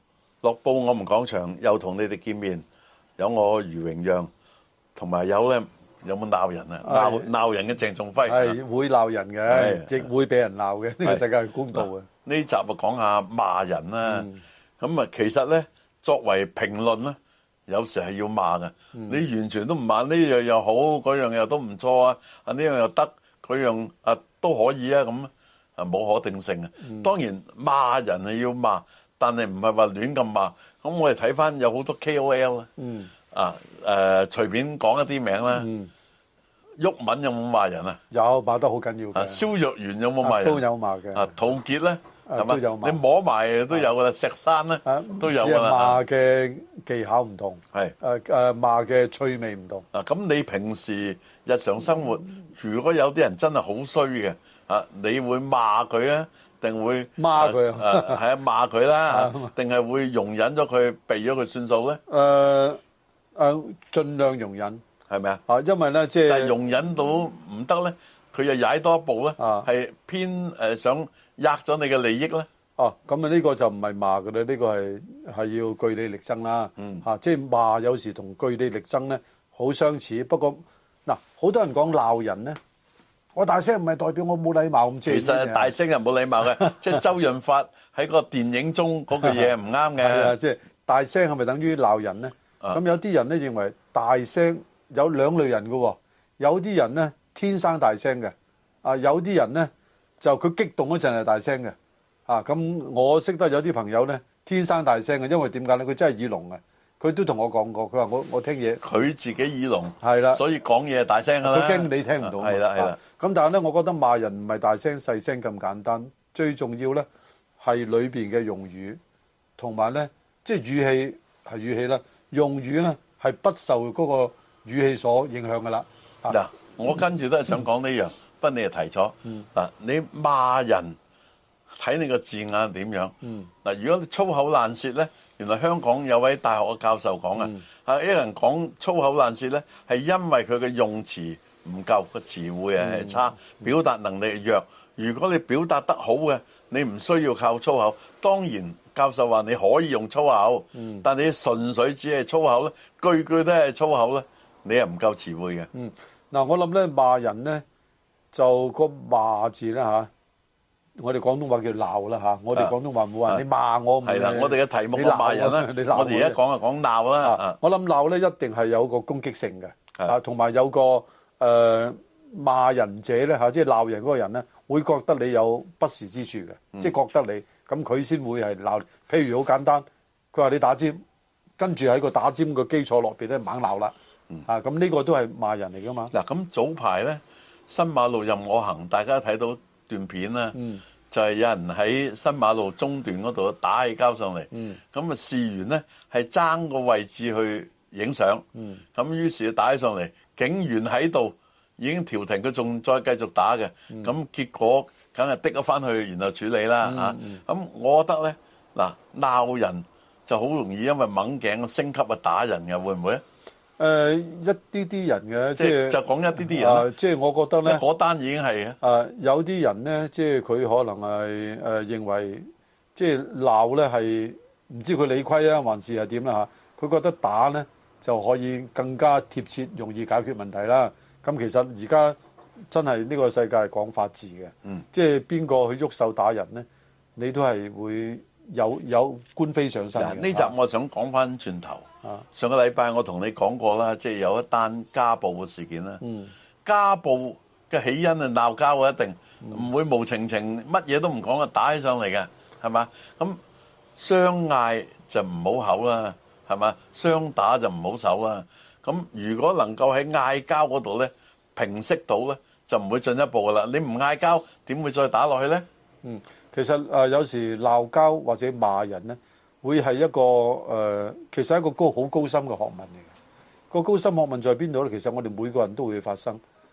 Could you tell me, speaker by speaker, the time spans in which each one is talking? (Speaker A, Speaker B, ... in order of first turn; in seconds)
Speaker A: 0.4-2.6, 3.2-4.3, 5.0-8.6, 9.5-10.1, 11.7-14.3, 14.8-32.7, 33.3-35.7, 36.8-38.0, 39.1-46.0, 49.9-62.0, 65.1-65.4, 66.3-72.5, 76.8-77.0, 85.1-90.3, 108.8-113.0, 126.3-131.0, 131.8-155.7, 164.0-167.6, 186.1-190.6, 191.1-213.2, 215.6-216.9, 217.7-218.8, 240.0-246.0, 246.7-253.4, 254.0-265.6
Speaker B: 6.8-7.3, 8.3-12.1, 14.1-14.4, 18.9-19.2, 26.8-27.1, 32.8-33.1, 35.5-35.9, 38.1-39.4, 40.2-41.3, 42.3-43.0, 44.9-49.9, 57.2-58.2, 59.1-59.5, 62.1-62.8, 63.4-64.8, 65.5-66.5, 69.4-69.7, 72.8-82.6, 83.3-85.7, 90.0-101.8, 102.3-108.8, 110.0-110.4, 111.4-117.1, 117.6-119.0, 119.6-126.4, 133.2-133.5, 137.4-137.6, 142.8-143.3, 150.8-151.1, 155.7-157.6, 158.3-160.1, 161.0-166.4, 167.2-181.0, 181.6-183.9, 184.4-186.1, 190.6-190.8, 194.5-194.8, 198.6-198.8, 206.8-207.4, 213.8-217.8, 218.8-222.4, 222.9-232.2, 232.7-236.7, 237.2-240.5, 246.0-246.3, 266.0-273.1, 273.7-276.4